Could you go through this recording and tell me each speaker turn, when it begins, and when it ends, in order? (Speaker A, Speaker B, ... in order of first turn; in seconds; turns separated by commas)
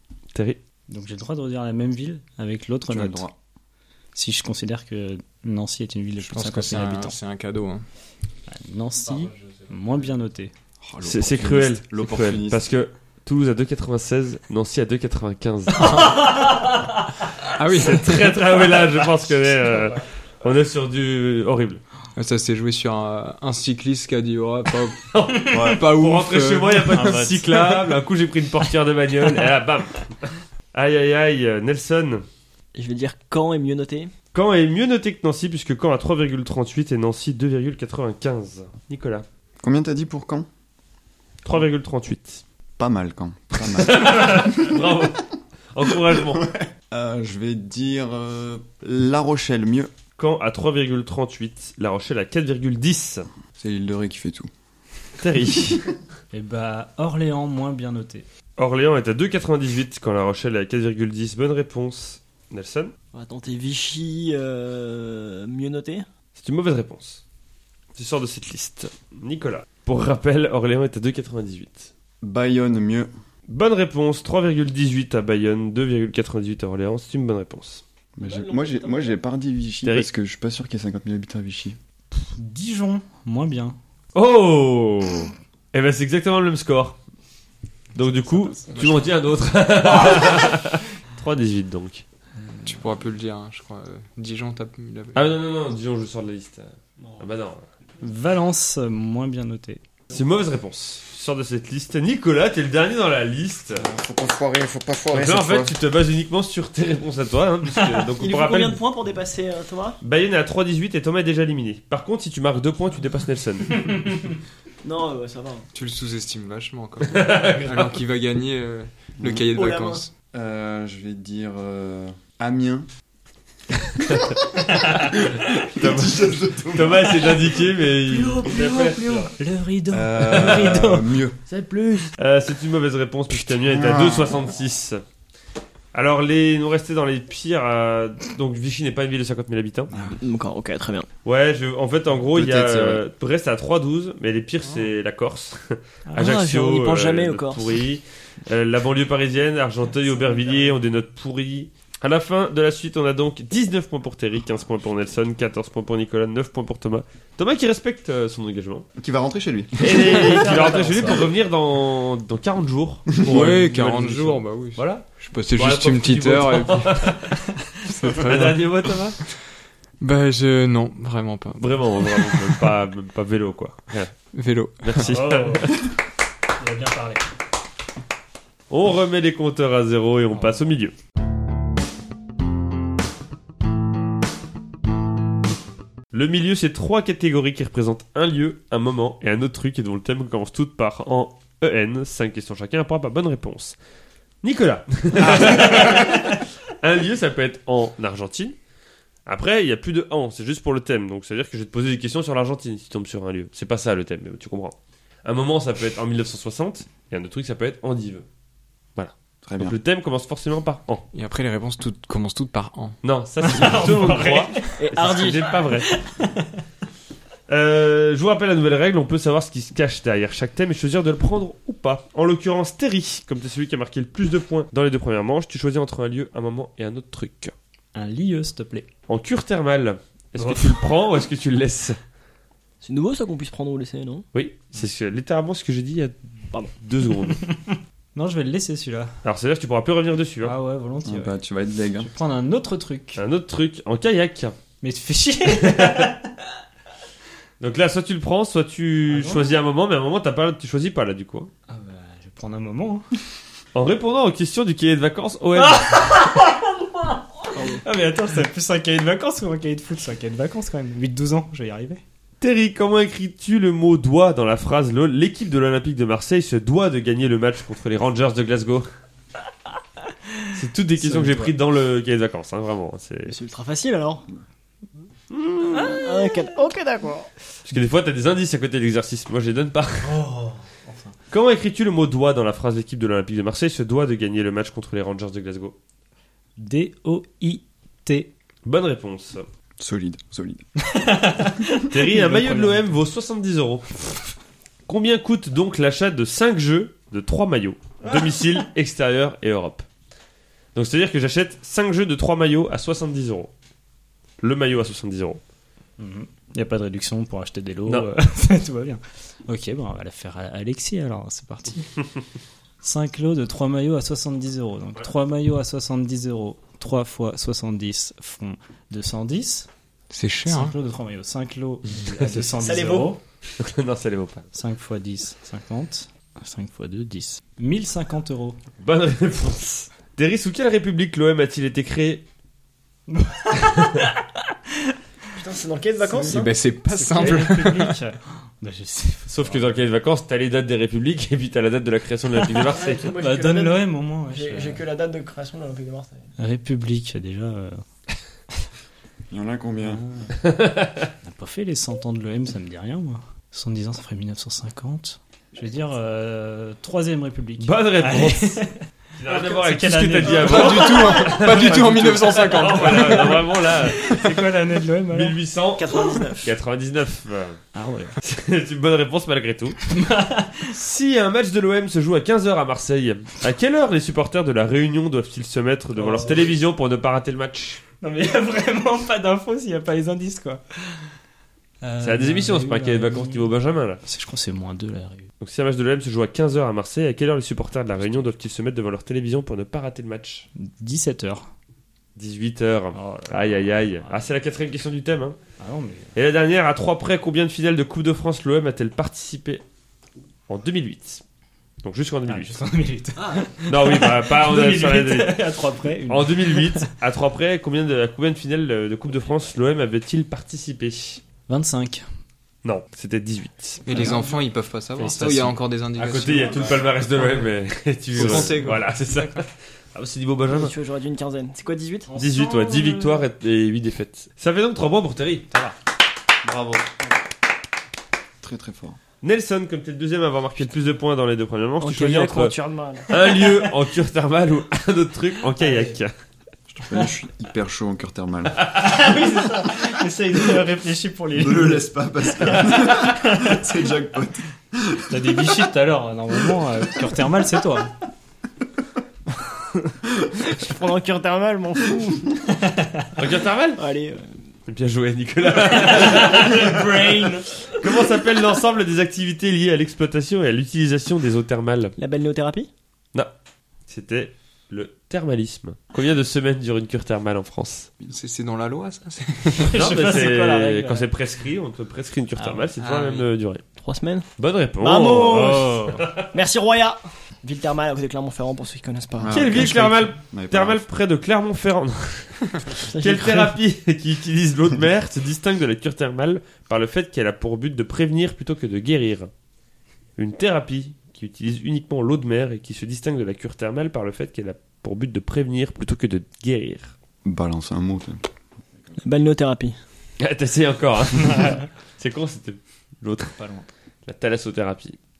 Speaker A: 0.3-0.6, Speaker B: 0.9-3.2, Speaker C: 2.9-3.3, Speaker B: 4.1-7.2, Speaker D: 6.2-7.8, Speaker B: 8.5-10.5, Speaker C: 10.8-12.7, Speaker A: 11.0-16.2, Speaker B: 15.8-17.1, Speaker D: 15.9-16.2, Speaker D: 17.5-18.6, Speaker A: 17.7-21.8, Speaker D: 22.1-27.1, Speaker A: 25.1-32.2, Speaker C: 25.5-25.8, Speaker B: 26.9-28.0, Speaker E: 32.7-34.1, Speaker A: 34.3-39.2, Speaker C: 39.6-40.5, Speaker A: 41.4-42.4, Speaker C: 42.8-44.9, Speaker A: 43.6-46.4, Speaker C: 45.9-49.9, Speaker A: 50.2-53.3, Speaker C: 53.6-54.5, Speaker A: 55.2-55.9, Speaker B: 56.3-58.2, Speaker A: 58.6-62.9, Speaker E: 63.1-66.0, Speaker A: 66.3-67.2, Speaker A: 67.9-71.9, Speaker C: 72.2-73.1, Speaker A: 73.5-77.8, Speaker C: 78.2-81.8, Speaker E: 78.2-79.2, Speaker A: 79.8-80.1, Speaker B: 82.2-83.8, Speaker A: 84.1-87.0, Speaker A: 87.9-92.0, Speaker B: 88.4-89.0, Speaker D: 92.6-95.3, Speaker A: 95.1-97.6, Speaker B: 98.0-99.8, Speaker A: 100.1-103.9, Speaker C: 103.8-105.8, Speaker A: 105.1-108.8, Speaker B: 107.7-108.0, Speaker E: 108.2-110.0, Speaker A: 110.0-113.8, Speaker E: 114.8-115.7, Speaker D: 115.7-120.1, Speaker A: 117.0-118.0, Speaker C: 119.2-119.4, Speaker E: 119.5-120.0, Speaker C: 120.3-122.9, Speaker A: 124.0-129.3, Speaker C: 124.1-124.4, Speaker C: 125.1-127.6, Speaker B: 128.1-131.1, Speaker C: 129.9-131.4, Speaker A: 130.2-131.0, Speaker A: 131.5-135.0, Speaker C: 133.6-134.4, Speaker A: 135.9-139.9, Speaker C: 139.9-140.2, Speaker E: 140.1-141.1, Speaker A: 141.2-158.9, Speaker C: 142.4-143.0, Speaker D: 142.4-142.8, Speaker E: 146.2-147.7, Speaker C: 159.0-160.6, Speaker A: 159.8-167.4, Speaker B: 160.0-161.2, Speaker E: 160.3-161.2, Speaker C: 163.1-163.5, Speaker D: 163.2-168.7, Speaker A: 168.0-169.2, Speaker D: 170.0-172.7, Speaker A: 171.6-174.1, Speaker D: 174.3-175.2, Speaker A: 174.8-175.8, Speaker B: 175.0-175.7, Speaker B: 176.6-177.2, Speaker A: 178.7-180.9, Speaker A: 186.1-193.8, Speaker A: 194.4-198.6, Speaker B: 195.8-196.1, Speaker A: 199.2-208.2, Speaker A: 208.9-211.0, Speaker C: 209.4-209.8, Speaker D: 211.1-213.0, Speaker A: 213.0-215.9, Speaker B: 213.4-216.5, Speaker E: 214.8-215.6, Speaker A: 217.5-227.5, Speaker B: 227.9-228.9, Speaker A: 229.1-232.0, Speaker B: 230.4-230.8, Speaker E: 232.8-234.2, Speaker A: 234.3-237.4, Speaker B: 237.3-239.1, Speaker A: 239.2-240.5, Speaker B: 240.4-241.3, Speaker C: 241.0-242.1, Speaker B: 242.0-243.2, Speaker A: 243.2-244.6, Speaker B: 244.8-246.2, Speaker A: 245.5-246.1, Speaker A: 247.6-251.5, Speaker B: 249.1-249.5, Speaker B: 251.7-253.1, Speaker A: 253.7-256.0, Speaker B: 255.5-262.0, Speaker E: 257.5-257.8, Speaker A: 262.4-268.9, Speaker A: 270.5-273.3, Speaker B: 271.0-271.5, Speaker E: 273.2-274.2, Speaker A: 275.3-276.0, Speaker E: 275.7-277.3, Speaker B: 275.8-276.3, Speaker A: 277.6-280.1, Speaker B: 280.0-281.1, Speaker A: 281.3-285.8, Speaker B: 286.6-288.3, Speaker A: 288.6-289.4, Speaker C: 289.8-290.6, Speaker B: 290.9-292.9, Speaker A: 291.9-294.1, Speaker A: 294.9-299.9, Speaker A: 300.7-303.5, Speaker A: 304.4-305.4, Speaker B: 306.0-312.0, Speaker B: 312.8-319.7, Speaker D: 320.1-320.8, Speaker B: 320.4-323.2, Speaker A: 321.9-322.5, Speaker E: 322.6-323.1, Speaker A: 323.6-324.4, Speaker B: 324.5-328.6, Speaker A: 328.8-332.2, Speaker B: 333.1-334.2, Speaker A: 333.7-334.0, Speaker E: 335.3-336.5, Speaker D: 336.1-338.0, Speaker B: 336.2-339.8, Speaker A: 339.3-343.1, Speaker E: 342.6-346.2, Speaker B: 343.1-344.8, Speaker B: 346.4-347.8, Speaker C: 349.3-350.0, Speaker B: 349.8-350.3, Speaker A: 350.4-351.1, Speaker B: 351.2-365.4, Speaker A: 357.6-358.6, Speaker A: 359.2-364.3, Speaker D: 360.2-363.5, Speaker A: 365.1-367.6, Speaker E: 365.7-366.5, Speaker B: 367.7-368.1, Speaker A: 368.2-369.8, Speaker B: 369.9-370.7, Speaker A: 370.6-377.8, Speaker B: 375.9-376.5, Speaker B: 378.0-381.1, Speaker B: 381.8-383.5, Speaker A: 382.0-384.0, Speaker B: 384.0-385.3, Speaker A: 385.4-390.5, Speaker B: 390.6-391.5, Speaker A: 392.1-395.4, Speaker B: 392.9-394.1, Speaker B: 395.6-396.1, Speaker A: 396.1-399.6, Speaker A: 400.5-401.2, Speaker A: 401.8-402.6, Speaker B: 402.3-406.9, Speaker E: 403.2-403.4, Speaker A: 403.7-405.4, Speaker A: 406.1-411.2, Speaker B: 411.5-412.0, Speaker A: 412.6-414.1, Speaker D: 413.8-416.7, Speaker B: 413.9-414.4, Speaker B: 415.0-415.5, Speaker A: 415.9-420.7, Speaker D: 418.1-419.3, Speaker B: 418.2-418.5, Speaker E: 420.5-422.1, Speaker B: 422.1-423.2, Speaker A: 422.1-425.5, Speaker C: 426.4-426.9, Speaker C: 428.4-429.0, Speaker A: 429.2-432.6, Speaker E: 431.8-433.7, Speaker A: 433.1-436.1, Speaker B: 435.6-435.9, Speaker C: 436.7-438.7, Speaker B: 438.7-441.8, Speaker C: 441.3-445.3, Speaker B: 442.4-443.6, Speaker B: 445.1-447.9, Speaker E: 450.4-452.4, Speaker A: 453.1-453.8, Speaker E: 453.8-454.3, Speaker A: 454.7-461.9, Speaker B: 455.7-457.5, Speaker E: 462.0-462.7, Speaker A: 463.9-467.9, Speaker D: 468.1-469.8, Speaker B: 469.5-471.1, Speaker A: 469.7-473.6, Speaker B: 472.4-473.3, Speaker E: 473.8-474.3, Speaker A: 474.4-476.3, Speaker E: 474.8-479.7, Speaker B: 475.3-476.0, Speaker C: 479.2-480.8, Speaker A: 479.3-489.3, Speaker E: 482.9-483.5, Speaker A: 490.2-496.9, Speaker C: 497.2-498.2, Speaker E: 499.0-499.8, Speaker A: 500.2-503.4, Speaker B: 503.4-503.7, Speaker A: 504.1-505.0